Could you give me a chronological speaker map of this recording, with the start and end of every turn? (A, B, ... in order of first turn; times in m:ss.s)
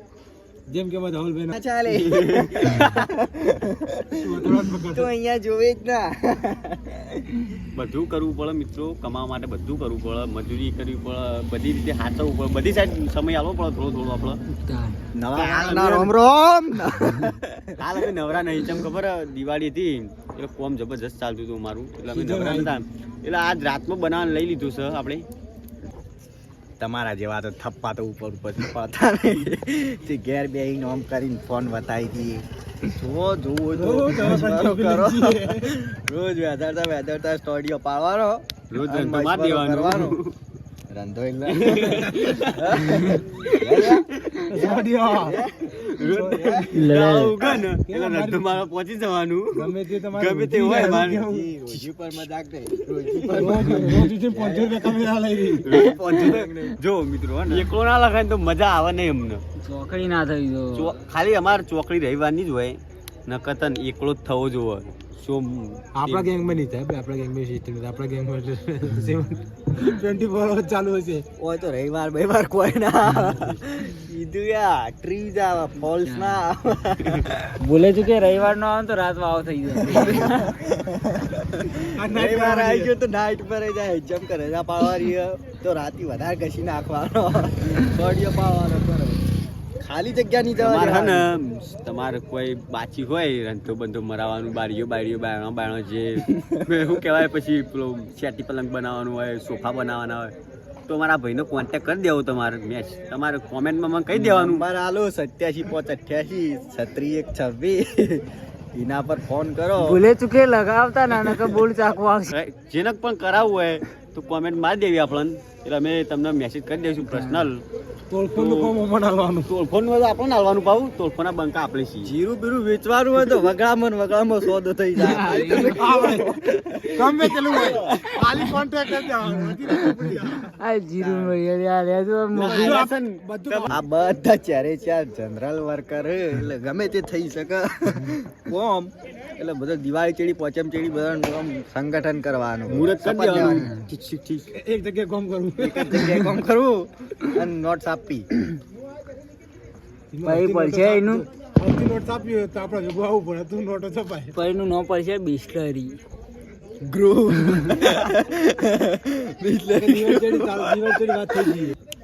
0:00.7-0:01.6 A
0:01.5-0:07.5 B
0:01.9-0:03.1 C
0:04.2-0:05.1 A
0:07.7-0:14.4 C
0:14.5-0:15.0 D
0:15.1-0:17.8 B
0:15.3-0:16.1 C
0:17.0-0:17.3 D
0:17.8-0:25.2 C
0:22.0-0:22.8 A
0:26.8-0:40.2 B
0:33.7-0:35.7 A
0:38.7-0:40.3 C
0:40.9-0:46.9 B
0:41.5-0:42.4 C
0:41.9-0:42.5 A
0:44.5-0:45.4 A
0:45.9-0:51.2 C
0:46.0-0:46.6 A
0:46.7-0:47.4 D
0:47.8-0:48.7 A
0:49.5-0:51.5 A
0:51.0-0:56.8 B
0:53.2-0:53.8 C
0:53.3-0:55.7 A
0:55.6-0:59.4 C
0:59.6-1:00.9 D
1:00.8-1:06.6 C
1:05.9-1:11.2 A
1:11.4-1:17.4 B
1:16.0-1:16.4 D
1:17.6-1:20.5 D
1:19.8-1:31.3 B
1:21.9-1:22.9 A
1:30.6-1:40.3 C
1:36.3-1:36.6 B
1:40.9-1:44.6 C
1:44.1-1:50.0 B
1:49.8-1:52.3 D
1:52.3-1:57.6 C
1:57.0-1:57.5 D
1:58.1-1:59.5 A
1:58.3-1:58.8 C
1:59.5-2:02.1 C
2:02.0-2:07.8 B
2:05.0-2:05.8 D
2:05.6-2:10.5 A
2:07.5-2:08.0 C
2:10.6-2:12.8 D
2:11.0-2:11.4 B
2:12.3-2:13.8 A
2:12.4-2:13.7 C
2:13.7-2:23.7 B
2:22.7-2:24.5 C
2:24.5-2:26.3 A
2:25.6-2:28.3 B
2:30.1-2:34.3 A
2:30.2-2:31.2 D
2:34.3-2:36.0 D
2:36.8-2:41.7 B
2:39.7-2:41.8 A